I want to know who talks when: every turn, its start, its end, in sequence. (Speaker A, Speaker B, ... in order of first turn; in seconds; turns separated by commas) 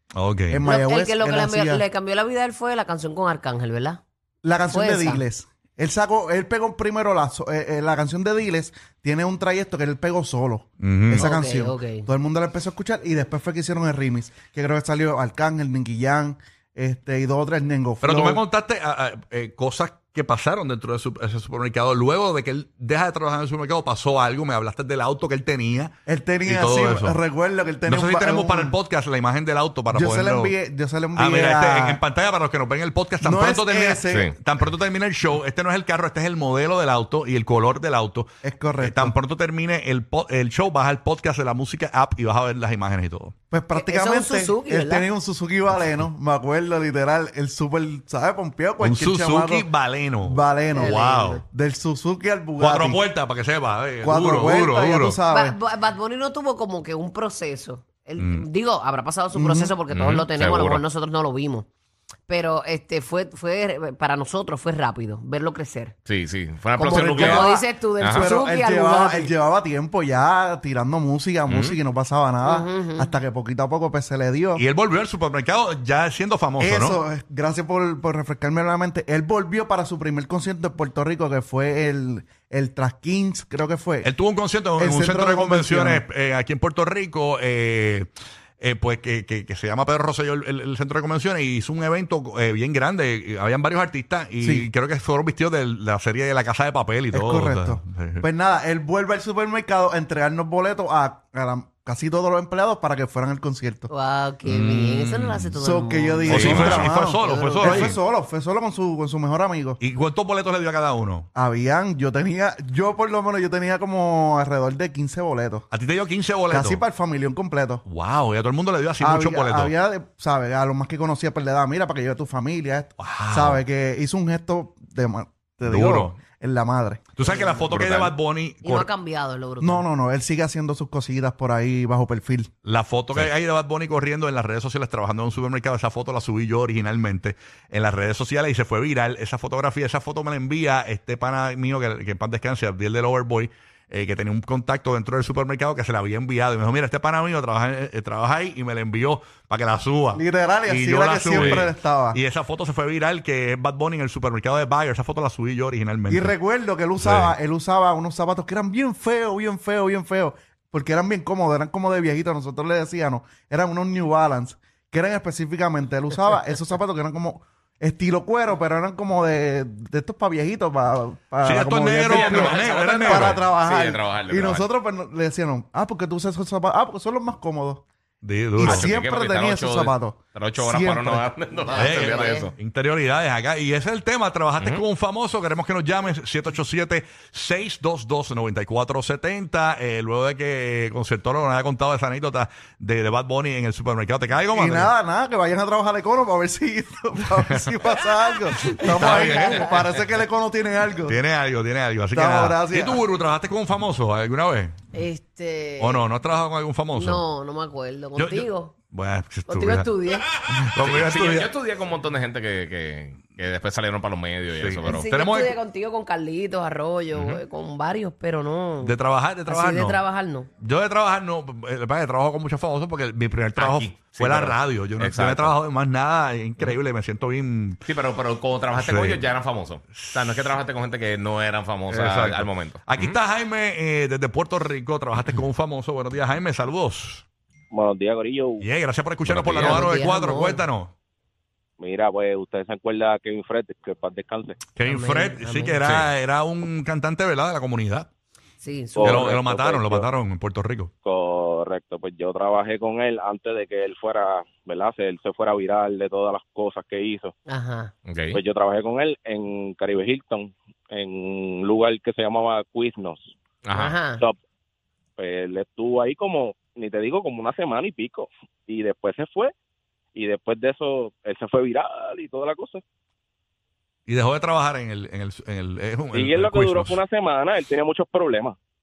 Speaker A: 0.1-0.6, Speaker B: 0.5-1.8, Speaker C: 0.6-4.0, Speaker B: 4.4-18.4, Speaker C: 4.7-5.2, Speaker A: 10.8-11.2, Speaker C: 11.2-12.1, Speaker A: 18.0-27.2, Speaker B: 26.1-28.8, Speaker A: 27.9-30.5, Speaker B: 29.9-32.0, Speaker A: 31.1-43.3, Speaker B: 33.2-34.3, Speaker D: 34.1-34.3, Speaker B: 38.4-39.1, Speaker B: 43.5-49.7, Speaker C: 43.7-45.1, Speaker A: 48.8-51.4, Speaker B: 50.2-53.0, Speaker C: 50.7-51.4, Speaker A: 52.6-55.2, Speaker B: 54.0-55.6, Speaker C: 55.3-61.7, Speaker A: 58.2-58.5, Speaker B: 59.3-59.7, Speaker D: 59.9-60.8, Speaker C: 62.3-65.9, Speaker D: 66.0-68.3, Speaker B: 66.8-74.6, Speaker C: 67.2-69.3, Speaker D: 71.5-71.8, Speaker C: 72.4-73.1, Speaker A: 74.6-77.0, Speaker B: 76.6-84.1, Speaker A: 84.0-88.1, Speaker B: 84.8-86.0, Speaker A: 88.6-98.2, Speaker B: 94.4-94.7, Speaker B: 97.1-103.9, Speaker C: 103.9-107.9, Speaker A: 104.4-105.5, Speaker B: 105.6-109.8, Speaker D: 106.3-106.8, Speaker A: 106.3-108.0, Speaker A: 109.8-111.3, Speaker B: 111.3-115.7, Speaker A: 115.7-116.8, Speaker B: 116.5-117.8, Speaker A: 117.9-119.7, Speaker B: 119.0-127.0, Speaker A: 123.0-123.6, Speaker A: 125.7-126.2, Speaker A: 127.2-128.9, Speaker C: 127.2-127.6, Speaker D: 127.7-128.2, Speaker C: 128.6-129.8, Speaker B: 129.6-132.5, Speaker A: 132.6-156.3, Speaker B: 150.1-152.2, Speaker D: 151.3-151.7, Speaker B: 156.1-177.8, Speaker A: 157.0-157.3, Speaker A: 171.4-173.4, Speaker D: 172.1-174.7, Speaker A: 178.2-178.9, Speaker B: 178.6-181.3, Speaker D: 178.6-182.5, Speaker C: 181.7-182.5, Speaker A: 181.7-194.9, Speaker B: 194.5-201.2, Speaker A: 198.7-199.7, Speaker A: 201.1-204.8, Speaker B: 202.1-203.0, Speaker C: 204.9-206.0, Speaker A: 205.8-207.2, Speaker C: 206.9-208.7, Speaker A: 208.1-209.9, Speaker C: 209.5-210.2, Speaker A: 210.5-211.5, Speaker D: 210.8-215.1, Speaker A: 214.5-215.6, Speaker C: 214.8-220.5, Speaker D: 217.1-217.4, Speaker A: 218.8-220.0, Speaker A: 220.6-227.8, Speaker D: 223.6-225.5, Speaker D: 227.8-233.2, Speaker A: 228.7-229.3, Speaker A: 229.9-230.5, Speaker A: 231.9-237.2, Speaker E: 237.7-238.6, Speaker A: 238.6-240.9, Speaker D: 239.2-239.9, Speaker C: 239.6-240.6, Speaker E: 241.8-244.6, Speaker A: 244.7-248.1, Speaker C: 244.8-245.8, Speaker D: 245.8-246.1, Speaker C: 248.6-249.2, Speaker E: 249.0-250.1, Speaker A: 249.0-250.9, Speaker E: 251.0-257.3, Speaker C: 257.5-257.9, Speaker D: 258.1-258.4, Speaker E: 258.3-263.3, Speaker D: 263.6-263.9, Speaker C: 263.7-264.2, Speaker E: 264.1-264.4, Speaker E: 265.2-269.5, Speaker E: 270.1-272.8, Speaker A: 274.1-277.0, Speaker E: 276.1-278.6